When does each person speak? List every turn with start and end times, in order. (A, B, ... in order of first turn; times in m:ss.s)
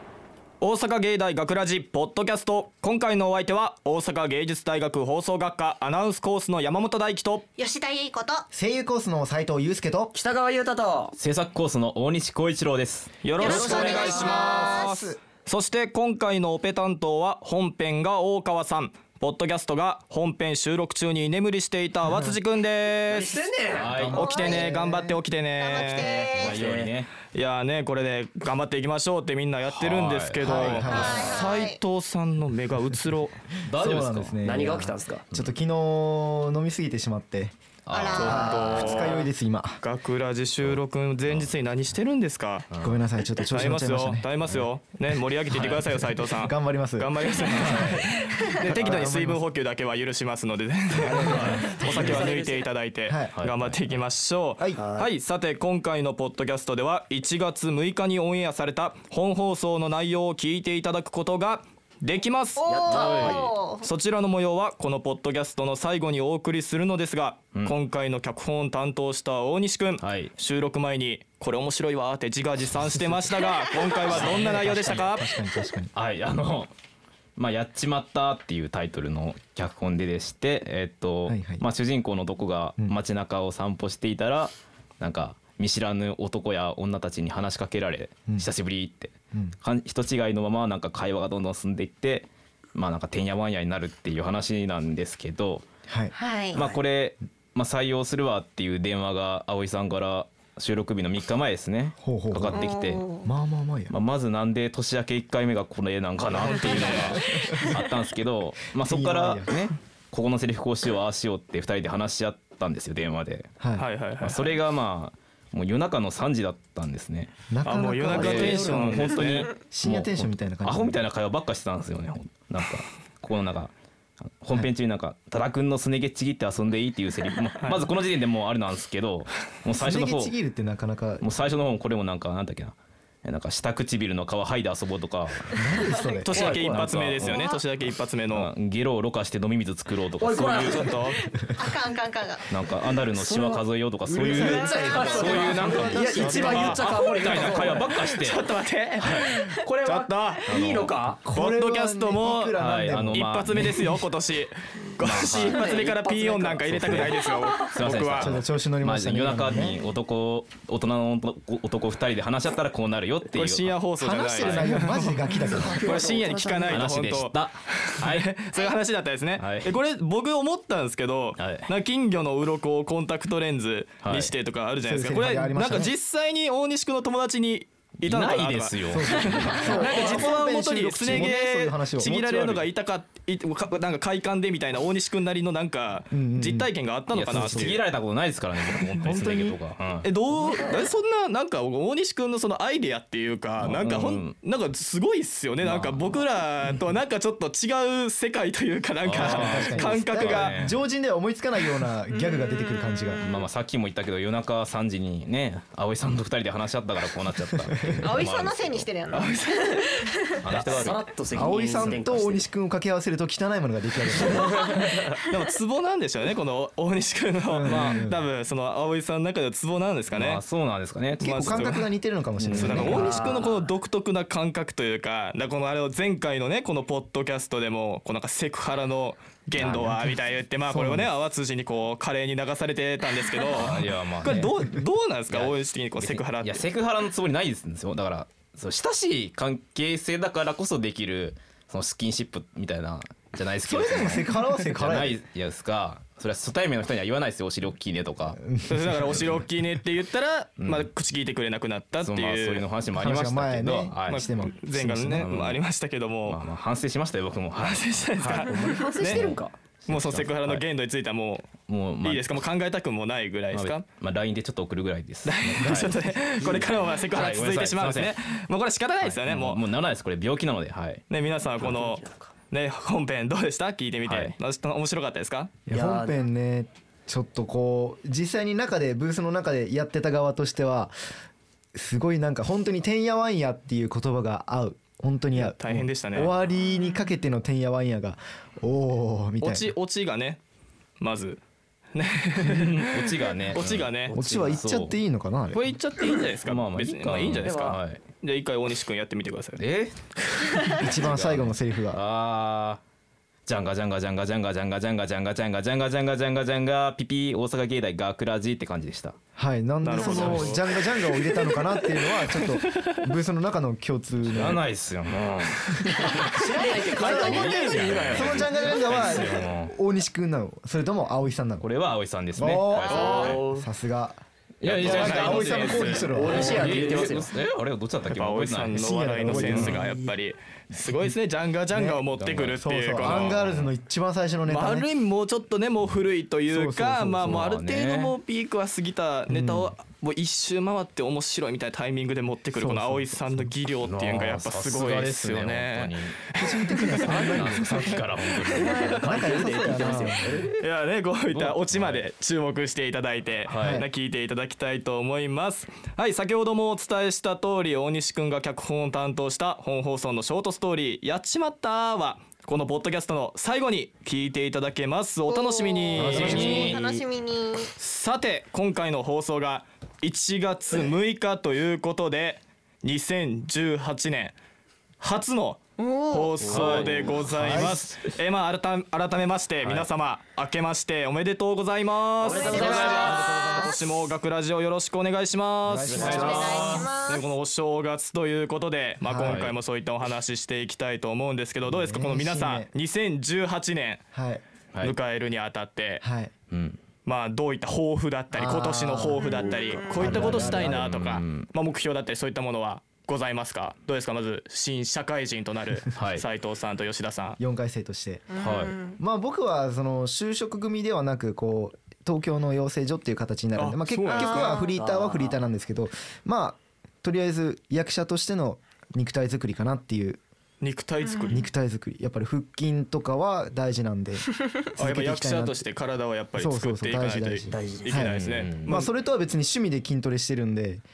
0:00.6-0:07.4 A
0:07.6-0:08.4 B
0:08.5-0:10.1 C
0:10.1-0:11.1 D
0:11.2-0:13.1 E
0:13.2-0:23.4 A
0:13.4-0:15.0 B
0:13.4-0:14.2 D
0:13.6-0:14.8 C
0:23.1-0:24.1 D
0:23.7-0:24.4 E
0:24.0-0:25.1 C
0:24.1-0:26.2 A
0:24.2-0:24.8 B
0:25.6-0:26.6 B
0:26.0-0:27.1 E
0:26.3-0:26.9 D
0:27.3-0:33.4 A
0:29.7-0:31.3 E
0:30.4-0:31.4 C
0:30.9-0:31.8 B
0:33.7-0:34.6 E
0:33.8-0:37.5 C
0:34.4-0:35.2 D
0:37.8-0:38.8 E
0:37.9-0:38.9 B
0:38.1-0:39.2 A
0:38.2-0:39.8 C
0:39.8-0:42.7 A
0:40.6-0:41.5 E
0:42.7-0:43.0 E
0:42.8-0:44.2 C
0:43.5-1:15.3 A
0:45.5-0:46.1 E
0:46.4-0:47.7 C
0:47.7-0:47.9 E
0:48.6-0:49.4 C
0:51.0-0:52.3 C
0:51.1-0:51.7 E
0:51.9-0:52.6 D
0:53.1-0:53.3 C
0:53.4-0:54.0 E
0:54.8-0:55.1 D
1:02.6-1:03.8 B
1:02.6-1:03.5 D
1:02.9-1:03.4 E
1:10.0-1:10.3 E
1:14.1-1:14.8 E
1:14.1-1:15.9 C
1:15.9-1:16.7 E
1:17.4-1:35.6 E
1:21.3-1:21.6 C
1:35.9-1:36.1 C
1:36.1-1:36.6 B
1:36.5-1:43.1 E
1:42.0-1:42.6 C
1:42.5-1:43.3 B
1:43.2-1:43.9 C
1:43.9-1:53.5 E
1:46.3-1:47.2 A
1:47.2-1:47.7 C
1:48.8-1:49.6 C
1:53.6-1:53.8 C
1:53.8-1:54.6 A
1:54.2-1:57.3 E
1:57.5-2:01.0 C
1:57.6-1:59.5 A
1:58.1-2:03.7 E
2:04.4-2:10.3 E
2:07.6-2:07.9 A
2:09.8-2:11.2 C
2:11.2-2:15.6 E
2:15.5-2:16.6 C
2:16.2-2:18.5 A
2:16.3-2:16.8 D
2:16.5-2:17.5 E
2:17.3-2:17.6 B
2:18.3-2:21.0 E
2:20.2-2:21.0 D
2:20.6-2:21.2 A
2:21.6-2:22.4 B
2:22.5-2:28.4 E
2:23.1-2:23.6 D
2:24.1-2:26.8 C
2:24.3-2:27.8 D
2:25.4-2:30.5 A
2:29.0-2:29.4 E
2:29.5-2:31.2 D
2:30.5-2:31.1 E
2:31.2-2:33.6 C
2:31.3-2:32.6 A
2:32.6-2:33.9 E
2:33.1-2:38.3 A
2:35.0-2:35.7 E
2:35.2-2:36.8 D
2:36.6-2:44.8 E
2:38.2-2:39.8 C
2:43.3-3:07.8 A
2:44.0-2:45.9 C
2:45.7-2:46.9 B
2:45.8-2:46.2 D
2:46.7-2:48.3 E
2:49.4-2:49.7 E
2:51.4-2:51.6 E
2:54.0-2:54.3 E
2:54.8-2:55.9 C
2:58.0-3:00.0 E
2:58.9-3:02.6 C
3:06.1-3:06.7 C
3:07.1-3:10.1 E
3:07.3-3:07.7 C
3:09.0-3:09.6 C
3:10.0-3:20.6 A
3:13.6-3:14.4 E
3:15.6-3:16.0 E
3:19.0-3:20.8 E
3:19.1-3:23.2 C
3:22.2-3:23.4 B
3:23.2-3:28.9 E
3:28.0-3:30.4 B
3:29.1-3:29.9 A
3:30.4-3:31.0 E
3:30.5-3:32.4 D
3:31.3-3:34.8 C
3:35.3-3:40.4 A
3:37.5-3:38.2 C
3:37.6-3:38.1 E
3:40.1-3:41.8 E
3:41.2-3:41.9 A
3:41.2-3:43.3 C
3:42.4-3:43.1 E
3:42.5-3:56.6 A
3:42.8-3:43.6 D
3:49.6-3:50.0 E
3:50.7-3:51.1 C
3:53.5-3:54.7 E
3:55.3-4:08.4 E
4:03.6-4:05.2 C
4:08.4-4:09.1 C
4:08.7-4:12.7 A
4:10.6-4:10.9 E
4:12.0-4:14.3 E
4:12.9-4:15.2 C
4:14.1-4:16.4 A
4:15.1-4:15.6 E
4:16.2-4:20.6 E
4:17.6-4:19.3 A
4:18.5-4:19.5 D
4:19.9-4:23.8 A
4:21.6-4:22.4 E
4:23.5-4:28.1 E
4:25.2-4:29.6 A
4:29.0-4:31.0 E
4:31.1-4:35.6 A
4:31.6-4:32.3 D
4:34.0-4:34.3 E
4:35.7-4:40.9 C
4:35.7-4:36.2 D
4:41.7-4:49.7 C
4:45.4-4:46.3 A
4:49.4-4:50.4 A
4:51.0-4:51.4 A
4:51.9-4:54.1 A
4:52.4-4:55.0 E
4:54.1-4:54.6 D
4:54.1-4:55.7 C
4:55.5-4:59.6 A
4:56.4-4:58.0 E
4:57.4-4:57.8 D
4:59.6-5:02.8 E
5:00.8-5:02.0 C
5:03.5-5:09.2 E
5:09.4-5:14.6 C
5:09.8-5:12.9 A
5:10.0-5:10.5 E
5:14.3-5:16.4 E
5:16.2-5:18.5 D
5:16.9-5:18.2 A
5:16.9-5:21.7 C
5:17.2-5:19.7 E
5:21.6-5:23.4 E
5:22.4-5:24.2 C
5:22.9-5:23.6 D
5:22.9-5:23.4 A
5:24.6-5:29.8 E
5:24.6-5:26.3 A
5:24.8-5:27.0 C
5:25.9-5:27.3 D
5:28.1-5:33.5 A
5:28.7-5:30.0 C
5:31.7-5:32.0 C
5:32.1-5:33.7 E
5:32.6-5:34.9 C
5:34.5-5:47.3 A
5:36.5-5:37.4 C
5:37.2-5:38.1 E
5:39.3-5:39.7 C
5:42.6-5:43.5 C
5:43.8-5:46.2 E
5:46.4-5:48.0 C
5:47.1-5:50.1 E
5:48.6-5:50.4 C
5:48.7-5:50.5 D
5:50.6-6:06.8 A
5:51.3-5:52.0 E
5:53.4-5:53.8 E
5:53.6-5:53.9 C
6:05.3-6:07.7 B
6:05.9-6:07.0 E
6:07.8-6:14.3 A
6:15.0-6:34.0 A
6:15.8-6:16.4 B
6:16.4-6:17.2 D
6:16.5-6:17.8 E
6:17.3-6:17.8 C
6:22.2-6:23.6 D
6:22.3-6:23.7 B
6:22.5-6:23.6 C
6:25.6-6:26.8 C
6:25.9-6:26.9 E
6:26.0-6:27.3 B
6:29.0-6:29.5 C
6:29.2-6:29.5 E
6:31.6-6:32.7 C
6:34.1-6:34.4 C
6:34.8-6:36.0 A
6:36.0-6:36.3 C
6:36.5-6:36.8 E
6:37.0-6:47.4 A
6:38.4-6:40.8 C
6:39.2-6:40.0 B
6:40.0-6:41.5 E
6:45.9-6:46.2 E
6:47.4-6:48.3 C
6:48.3-6:49.0 B
6:48.4-6:48.8 E
6:49.0-7:00.2 C
6:53.6-6:54.5 A
6:54.1-6:54.7 B
6:54.7-6:55.4 D
7:00.6-7:01.4 A
7:01.0-7:01.3 B
7:01.3-7:05.6 C
7:04.8-7:08.9 A
7:06.4-7:10.8 C
7:07.5-7:07.9 D
7:08.0-7:08.7 E